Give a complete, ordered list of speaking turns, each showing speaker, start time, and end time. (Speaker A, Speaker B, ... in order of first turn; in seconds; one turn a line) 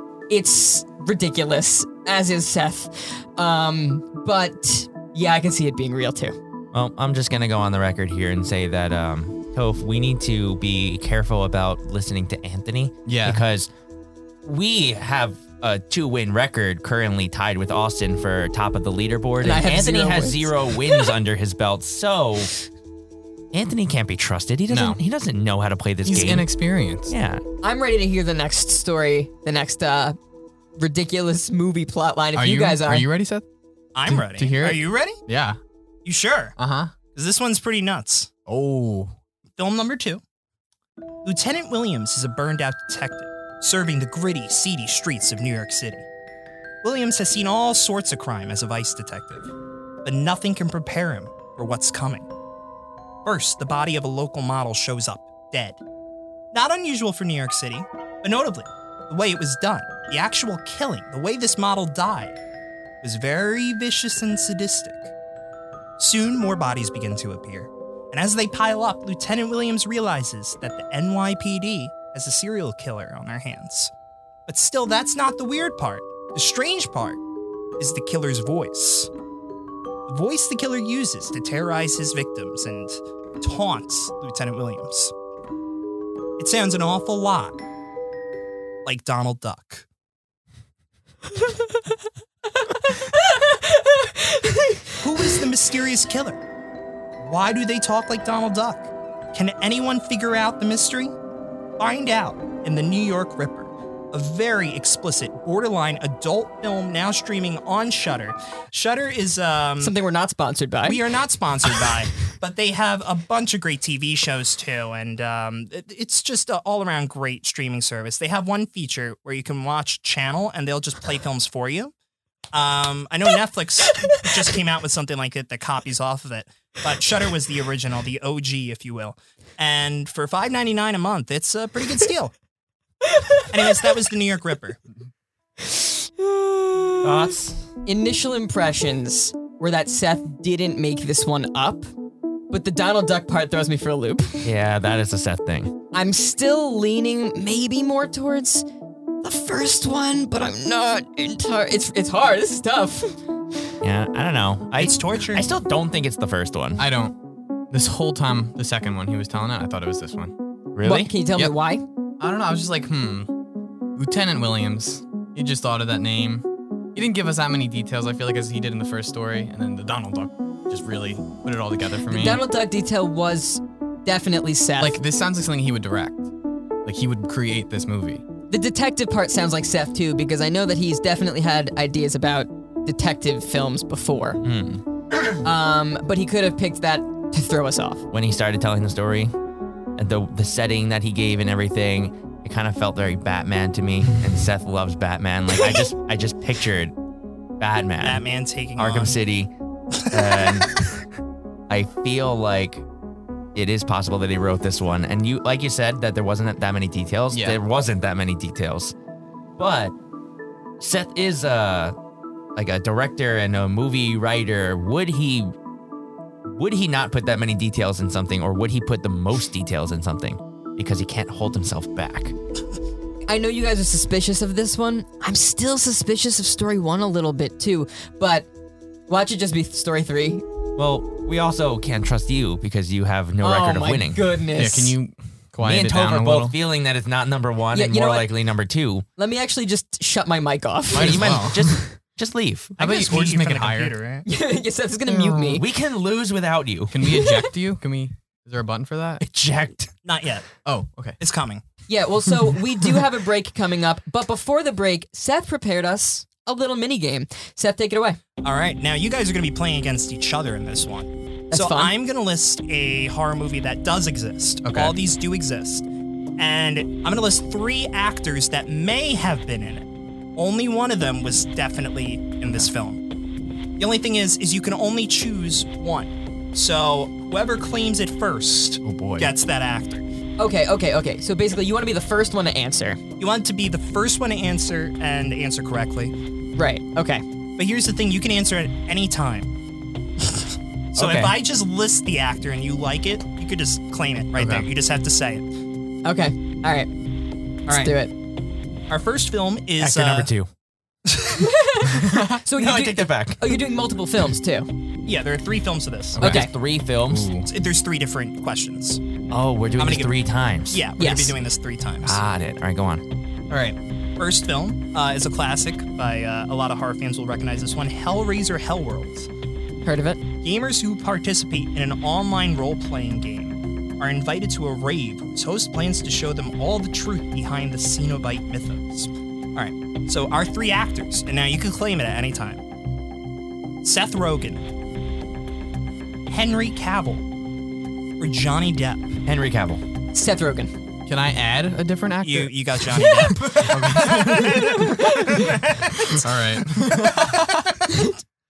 Speaker A: 0.3-6.4
Speaker B: 6.7-13.7
Speaker C: 13.1-13.4
Speaker B: 14.4-22.5
Speaker A: 19.4-21.1
Speaker B: 23.5-26.5
Speaker C: 24.7-25.0
Speaker C: 26.0-27.1
Speaker B: 27.1-27.4
Speaker A: 27.6-30.2
Speaker A: 30.8-33.1
Speaker C: 32.4-33.5
Speaker D: 34.0-35.2
Speaker C: 34.1-35.6
Speaker D: 36.0-36.6
Speaker C: 36.6-36.9
Speaker D: 37.1-38.3
Speaker C: 38.5-39.1
Speaker D: 39.6-40.2
Speaker D: 41.2-46.1
Speaker D: 46.8-49.5
Speaker D: 50.0-52.3
Speaker D: 53.2-55.8
Speaker D: 56.5-62.4
Speaker D: 63.0-65.1
Speaker D: 66.0-73.9
Speaker D: 74.5-77.2
Speaker D: 77.8-79.1
Speaker D: 80.1-85.1
Speaker D: 86.4-87.6
Speaker D: 88.8-89.9
Speaker A: 92.7-95.0
Speaker D: 95.0-96.4
Speaker D: 97.2-101.2
Speaker D: 101.8-110.0
Speaker A: 109.8-111.0
Speaker D: 110.8-121.9
Speaker D: 122.5-132.3
Speaker A: 133.1-133.5
Speaker D: 133.5-134.8
Speaker A: 135.6-137.3
Speaker B: 137.0-137.6
Speaker A: 137.9-141.9
Speaker A: 142.5-144.5
Speaker B: 144.4-145.8
Speaker A: 145.9-148.7
Speaker A: 149.2-153.2
Speaker B: 153.8-156.8
Speaker D: 154.8-155.5
Speaker C: 156.8-157.2
Speaker C: 157.7-160.3
Speaker B: 160.7-161.1
Speaker A: 160.8-161.8
Speaker C: 162.2-163.3
Speaker C: 164.0-172.4
Speaker A: 172.1-175.0
Speaker C: 174.8-176.3
Speaker C: 176.8-178.2
Speaker A: 178.5-184.4
Speaker B: 184.4-184.8
Speaker A: 185.4-188.0
Speaker B: 188.1-189.3
Speaker B: 190.0-196.9
Speaker B: 197.6-198.2
Speaker D: 198.0-199.2
Speaker B: 198.8-199.5
Speaker B: 200.1-200.9
Speaker D: 200.1-200.7
Speaker B: 201.7-202.8
Speaker B: 203.6-208.9
Speaker C: 207.3-207.6
Speaker B: 209.6-209.9
Speaker B: 210.8-211.9
Speaker B: 212.6-215.5
Speaker B: 216.5-222.3
Speaker A: 223.3-228.5
Speaker A: 229.1-230.4
Speaker B: 230.8-234.2
Speaker A: 233.4-234.9
Speaker C: 234.6-236.6
Speaker B: 235.6-239.1
Speaker A: 237.7-238.3
Speaker A: 239.2-241.5
Speaker C: 240.9-241.8
Speaker B: 240.9-242.8
Speaker D: 242.8-244.3
Speaker C: 242.8-244.0
Speaker A: 244.3-245.6
Speaker C: 245.1-245.6
Speaker B: 245.6-247.0
Speaker C: 246.9-249.2
Speaker A: 247.1-247.4
Speaker B: 249.2-250.0
Speaker D: 250.0-250.5
Speaker C: 250.7-251.2
Speaker D: 251.2-251.6
Speaker A: 251.9-258.2
Speaker D: 258.4-265.9
Speaker A: 261.5-261.9
Speaker C: 264.6-264.9
Speaker D: 266.4-273.0
Speaker D: 273.8-280.1
Speaker C: 278.8-279.3
Speaker A: 280.4-283.0
Speaker D: 283.2-286.1
Speaker A: 286.6-287.2
Speaker D: 287.6-289.5
Speaker D: 290.2-295.5
Speaker B: 291.0-291.4
Speaker C: 294.4-294.7
Speaker A: 296.1-296.9
Speaker D: 297.7-297.9
Speaker A: 297.7-298.1
Speaker D: 298.9-300.3
Speaker B: 299.8-300.5
Speaker D: 301.1-301.5
Speaker A: 301.4-304.7
Speaker C: 301.9-302.4
Speaker B: 302.6-303.6
Speaker D: 305.1-306.2
Speaker C: 306.2-306.5
Speaker B: 306.2-307.3
Speaker A: 306.2-306.5
Speaker C: 307.1-307.5
Speaker D: 307.4-309.0
Speaker B: 309.3-310.8
Speaker D: 309.8-310.1
Speaker D: 310.7-312.2
Speaker A: 311.0-311.4
Speaker B: 312.0-313.0
Speaker D: 313.5-319.3
Speaker A: 319.9-320.2
Speaker D: 320.4-332.6
Speaker D: 333.8-334.6
Speaker D: 336.3-337.3
Speaker D: 338.2-339.1
Speaker B: 339.3-339.8
Speaker A: 340.1-340.7
Speaker C: 341.1-348.1
Speaker D: 342.2-346.3
Speaker D: 346.8-347.5